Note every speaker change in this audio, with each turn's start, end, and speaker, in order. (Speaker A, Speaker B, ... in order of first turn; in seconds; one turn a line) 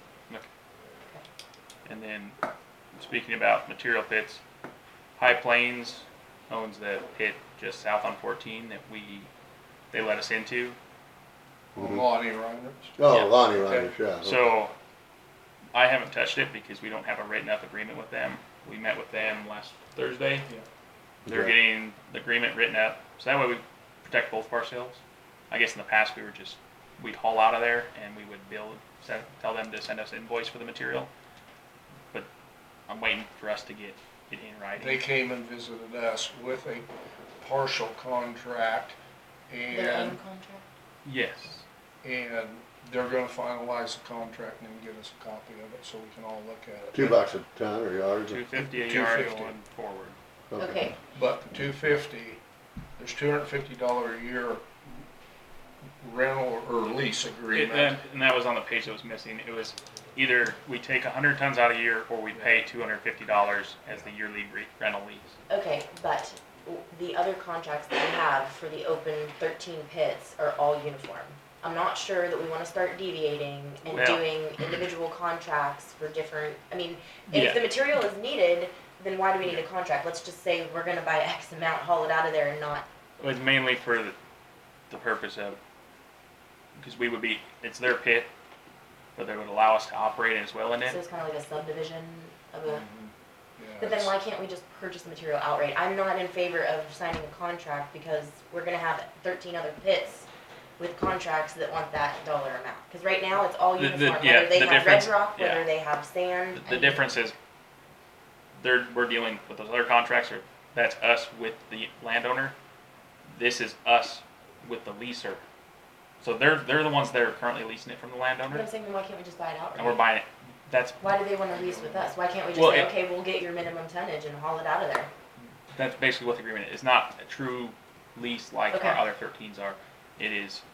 Speaker A: 1.9-2.4
Speaker A: 3.0-4.4
Speaker A: 5.2-9.3
Speaker A: 9.9-10.8
Speaker B: 11.8-13.0
Speaker C: 11.8-12.1
Speaker C: 13.0-14.5
Speaker A: 13.1-13.3
Speaker B: 13.6-13.9
Speaker A: 14.2-14.7
Speaker A: 15.7-20.5
Speaker C: 21.2-21.6
Speaker A: 21.3-25.0
Speaker A: 25.5-31.1
Speaker A: 32.9-35.0
Speaker B: 34.8-36.9
Speaker B: 37.4-39.0
Speaker B: 39.5-40.2
Speaker D: 39.7-40.6
Speaker A: 41.0-41.6
Speaker B: 42.0-47.2
Speaker C: 46.9-48.4
Speaker A: 48.3-50.2
Speaker B: 48.5-49.5
Speaker C: 50.5-50.8
Speaker D: 50.6-51.0
Speaker B: 51.1-52.4
Speaker B: 53.0-54.6
Speaker B: 56.0-58.0
Speaker A: 57.5-65.3
Speaker D: 65.5-82.8
Speaker A: 73.9-74.3
Speaker A: 77.3-77.6
Speaker A: 83.2-84.2
Speaker A: 84.9-85.6
Speaker A: 86.8-88.3
Speaker A: 89.2-91.0
Speaker D: 90.8-92.8
Speaker B: 92.7-94.1
Speaker D: 93.8-100.3
Speaker D: 100.8-107.0
Speaker A: 103.8-105.7
Speaker A: 106.5-107.3
Speaker A: 108.6-112.5
Speaker A: 113.3-115.4
Speaker A: 116.2-118.7
Speaker D: 118.5-120.0
Speaker A: 119.8-121.0
Speaker D: 121.0-125.1
Speaker B: 121.5-122.1
Speaker A: 122.5-122.9
Speaker A: 125.7-130.6
Speaker D: 128.7-129.0